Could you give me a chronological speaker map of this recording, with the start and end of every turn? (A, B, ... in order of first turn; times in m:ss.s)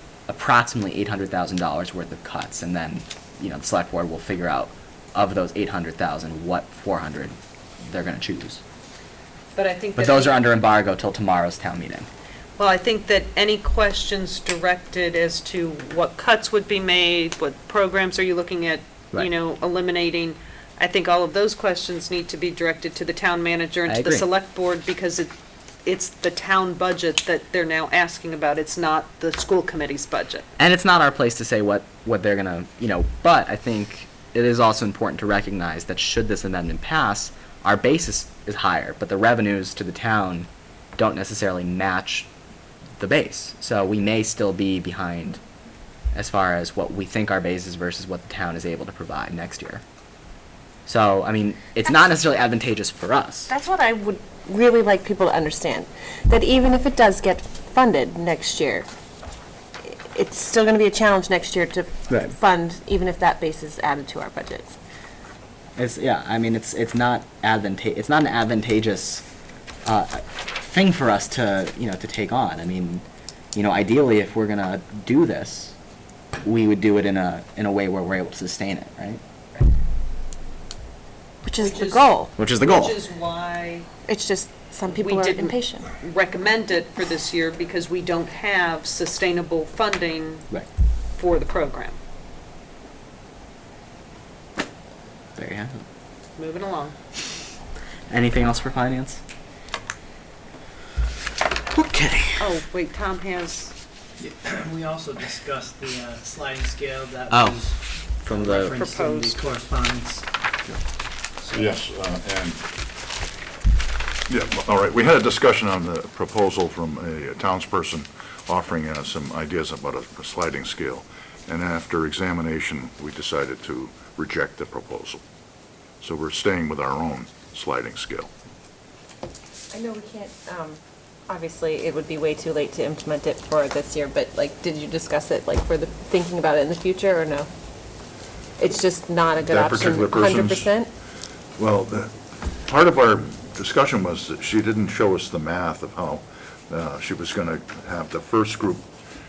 0:00.3-0:08.6 A
0:09.5-0:10.3 B
0:10.0-0:12.1 A
0:12.6-0:25.3 B
0:23.9-0:24.3 A
0:25.8-0:30.5 B
0:30.6-0:42.3 A
0:43.0-0:45.4 A
0:46.1-0:49.8 A
0:50.8-0:53.5 A
0:53.5-0:58.9 C
0:59.8-1:04.7 C
1:02.1-1:02.3 A
1:05.8-1:09.2 A
1:09.8-1:15.7 A
1:16.4-1:19.2 A
1:21.4-1:22.3 C
1:21.6-1:23.8 B
1:22.4-1:23.0 A
1:24.0-1:25.9 C
1:25.0-1:30.5 B
1:31.2-1:32.0 B
1:35.4-1:35.8 A
1:36.4-1:37.0 B
1:38.1-1:39.2 A
1:41.7-1:42.5 A
1:42.4-1:43.7 B
1:44.2-1:50.3 D
1:47.3-1:47.6 A
1:48.2-1:48.8 A
1:48.3-1:49.5 B
1:51.5-1:52.6 E
1:54.3-2:05.2 E
2:06.0-2:08.3 E
2:09.7-2:17.5 C
2:18.6-2:20.9 C
2:19.4-2:20.7 E
2:21.6-2:28.8 E